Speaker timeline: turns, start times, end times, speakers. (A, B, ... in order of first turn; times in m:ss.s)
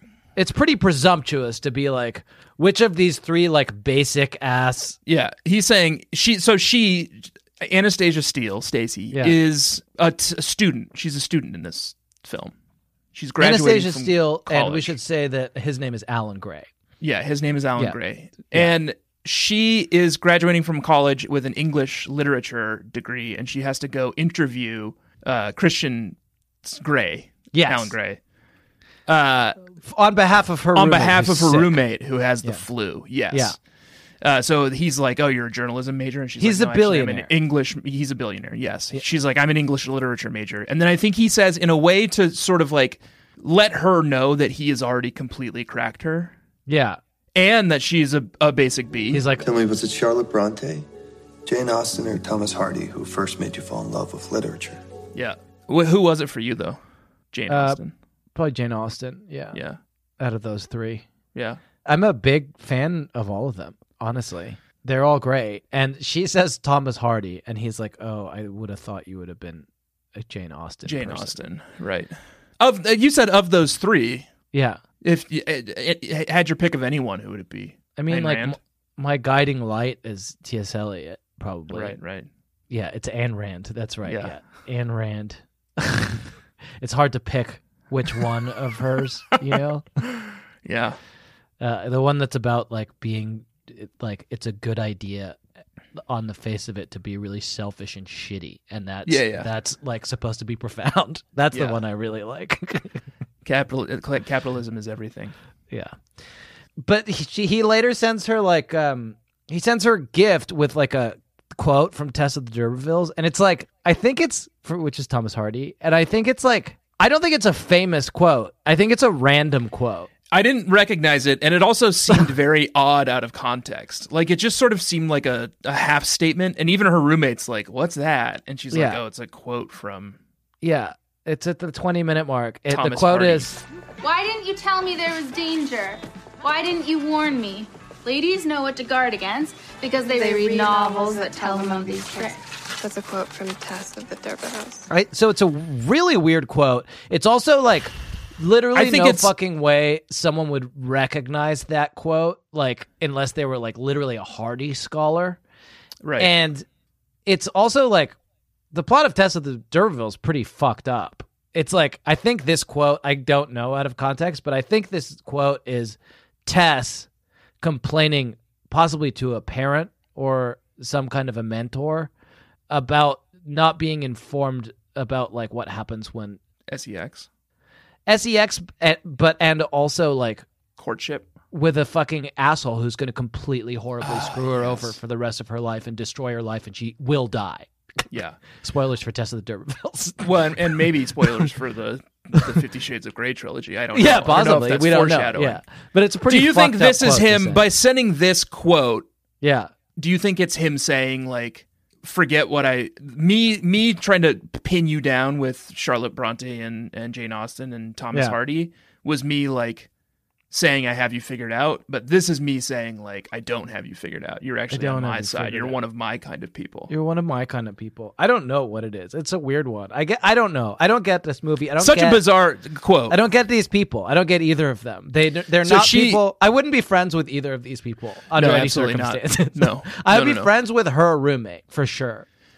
0:00.4-0:05.0 A
0:05.1-0:12.5 B
0:13.1-0:15.0 B
0:13.4-0:16.7 A
0:17.0-0:28.2 B
0:27.5-0:28.0 A
0:29.1-0:29.6 B
0:29.8-0:31.8 A
0:30.8-0:33.6 B
0:33.3-0:33.6 A
0:34.2-0:46.3 B
0:36.4-0:37.3 A
0:46.7-0:47.0 A
0:47.4-0:49.2 B
0:49.1-0:49.5 A
0:49.4-0:50.9 C
0:51.4-0:54.8 C
0:55.2-0:56.8 B
0:57.3-0:57.9 B
0:57.5-0:57.8 A
0:58.4-0:59.6 A
0:59.5-0:59.8 B
1:00.2-1:01.1 A
1:01.8-1:11.4 A
1:10.8-1:14.3 B
1:14.5-1:14.8 A
1:15.0-1:18.6 B
1:18.0-1:22.0 A
1:21.7-1:22.3 B
1:22.7-1:29.8 A
1:24.1-1:24.3 B
1:30.6-1:31.0 B
1:31.6-1:35.4 A
1:36.0-1:43.0 A
1:39.1-1:39.5 B
1:41.5-1:41.8 B
1:43.4-1:45.3 B
1:45.7-1:46.0 A
1:46.8-2:00.1 A
2:00.3-2:10.2 B
2:08.7-2:09.0 A
2:10.6-2:13.6 A
2:12.7-2:13.5 B
2:14.0-2:22.4 D
2:20.0-2:24.9 E
2:24.9-2:35.4 A
2:28.7-2:29.3 B
2:36.0-2:36.3 B
2:36.2-2:36.7 A
2:37.3-2:38.2 A
2:38.7-2:47.1 A
2:47.6-2:52.1 A
2:52.7-2:56.4 A
2:56.7-2:57.3 B
2:58.1-3:00.4 A
3:00.8-3:01.3 B
3:01.5-3:07.7 A
3:04.0-3:05.0 B
3:08.1-3:08.4 B
3:08.6-3:10.8 A
3:10.2-3:15.6 B
3:13.9-3:17.6 A
3:16.3-3:19.1 B
3:19.4-3:19.7 A
3:20.0-3:29.9 B
3:30.5-3:36.9 B
3:34.7-3:35.8 A
3:36.9-3:42.2 A
3:41.8-3:43.2 B
3:43.1-3:52.3 A
3:45.6-3:46.2 B
3:48.4-3:50.5 B